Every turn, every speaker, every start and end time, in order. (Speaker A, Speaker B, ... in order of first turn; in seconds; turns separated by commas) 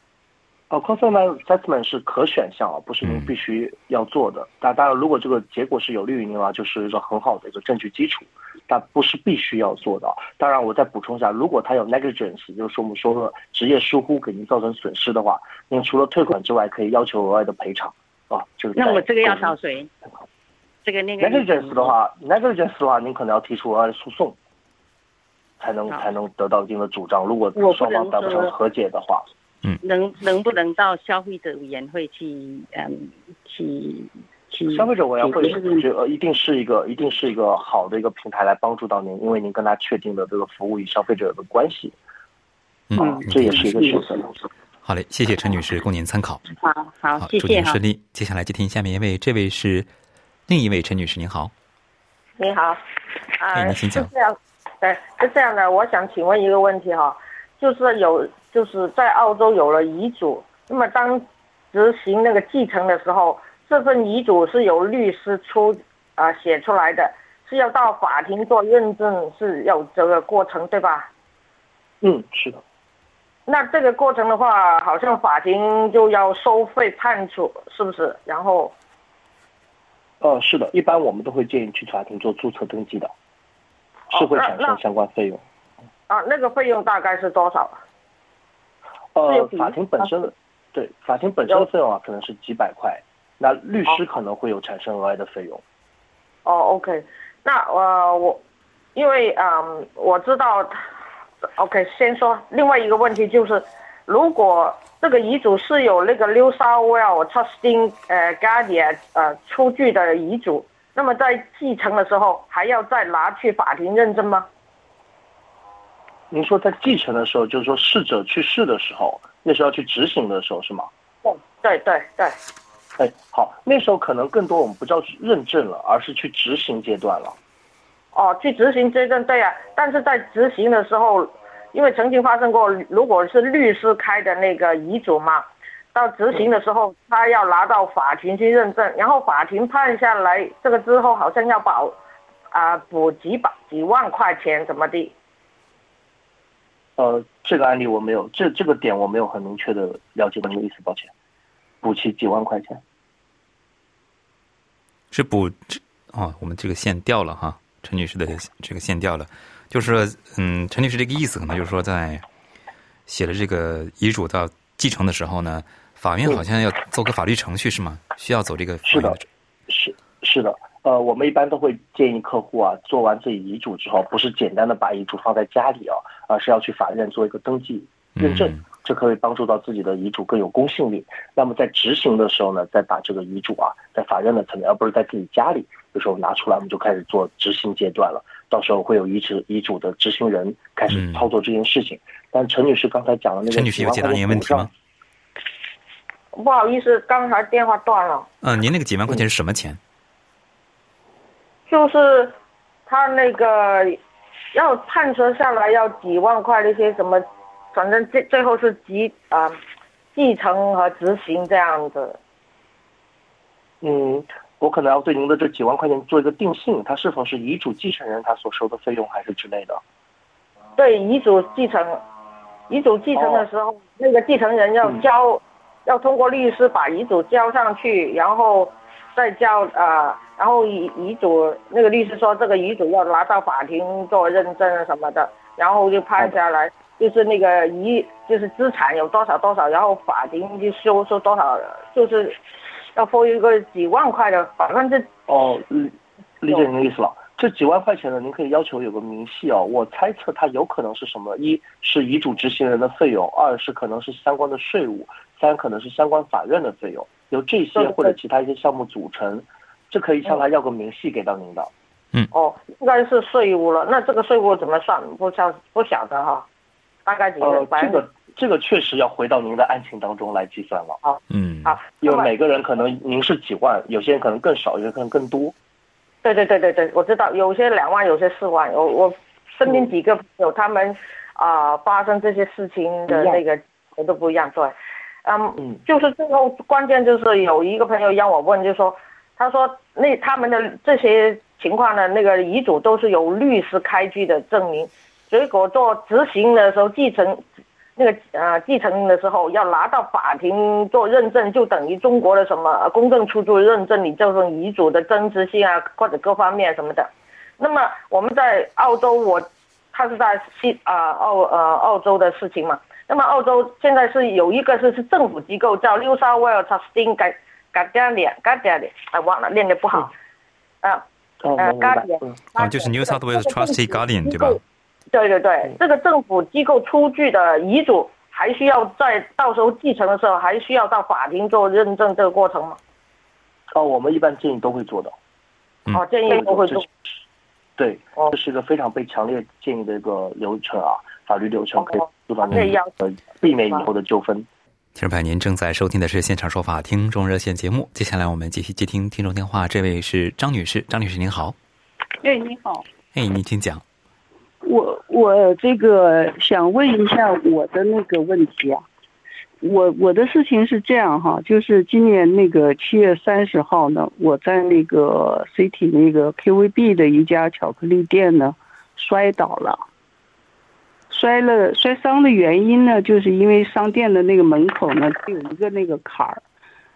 Speaker A: 0.7-19.6, Speaker B: 18.8-19.9, Speaker B: 20.8-21.9, Speaker A: 21.2-24.4, Speaker A: 25.6-29.3, Speaker B: 27.6-28.5, Speaker B: 29.8-35.9, Speaker A: 34.7-42.0, Speaker C: 42.9-43.7, Speaker B: 43.0-43.3, Speaker A: 43.0-44.3, Speaker C: 44.8-46.4, Speaker B: 46.6-47.8, Speaker C: 47.2-49.9, Speaker C: 50.5-51.5, Speaker D: 52.4-52.8, Speaker D: 53.4-71.1, Speaker C: 53.5-54.1, Speaker A: 72.0-72.6, Speaker D: 73.5-78.8, Speaker A: 80.2-83.1, Speaker D: 84.1-84.8, Speaker A: 84.1-85.4, Speaker D: 86.1-87.8, Speaker A: 89.1-95.6, Speaker D: 89.3-89.8, Speaker D: 96.5-98.4, Speaker D: 99.0-100.8, Speaker D: 101.5-114.5, Speaker A: 116.3-120.9, Speaker D: 121.2-122.4, Speaker A: 123.0-127.4, Speaker D: 128.1-142.0, Speaker D: 142.5-145.1, Speaker A: 147.0-151.1, Speaker A: 151.8-152.8, Speaker C: 155.1-162.2, Speaker C: 163.1-169.2, Speaker A: 168.9-194.7, Speaker C: 178.2-178.6, Speaker C: 190.9-191.3, Speaker C: 193.5-194.7, Speaker D: 196.3-198.3, Speaker C: 198.4-199.8, Speaker D: 201.7-202.4, Speaker D: 202.9-204.0, Speaker D: 204.5-209.6, Speaker D: 210.2-212.2, Speaker A: 213.8-219.8, Speaker D: 220.8-222.0, Speaker D: 222.7-242.4, Speaker A: 223.1-223.5, Speaker A: 224.8-225.1, Speaker D: 242.9-245.1, Speaker A: 245.3-261.7, Speaker D: 257.8-258.1, Speaker D: 262.3-266.5, Speaker D: 267.1-268.0, Speaker A: 267.4-271.0, Speaker D: 271.0-272.3, Speaker C: 271.3-271.9, Speaker A: 272.0-275.6, Speaker D: 276.2-284.7, Speaker A: 283.1-283.4, Speaker D: 285.2-297.4, Speaker D: 298.0-320.1, Speaker A: 321.4-322.4, Speaker D: 321.6-324.6, Speaker C: 322.6-324.6, Speaker D: 325.1-332.8, Speaker A: 333.7-335.2, Speaker D: 335.9-336.9, Speaker A: 336.3-336.9, Speaker A: 337.8-344.5, Speaker D: 341.8-342.9, Speaker D: 343.4-343.9, Speaker C: 344.9-351.6, Speaker E: 352.2-352.9, Speaker C: 353.1-353.8, Speaker E: 354.6-358.9, Speaker E: 359.6-369.9, Speaker E: 371.1-376.4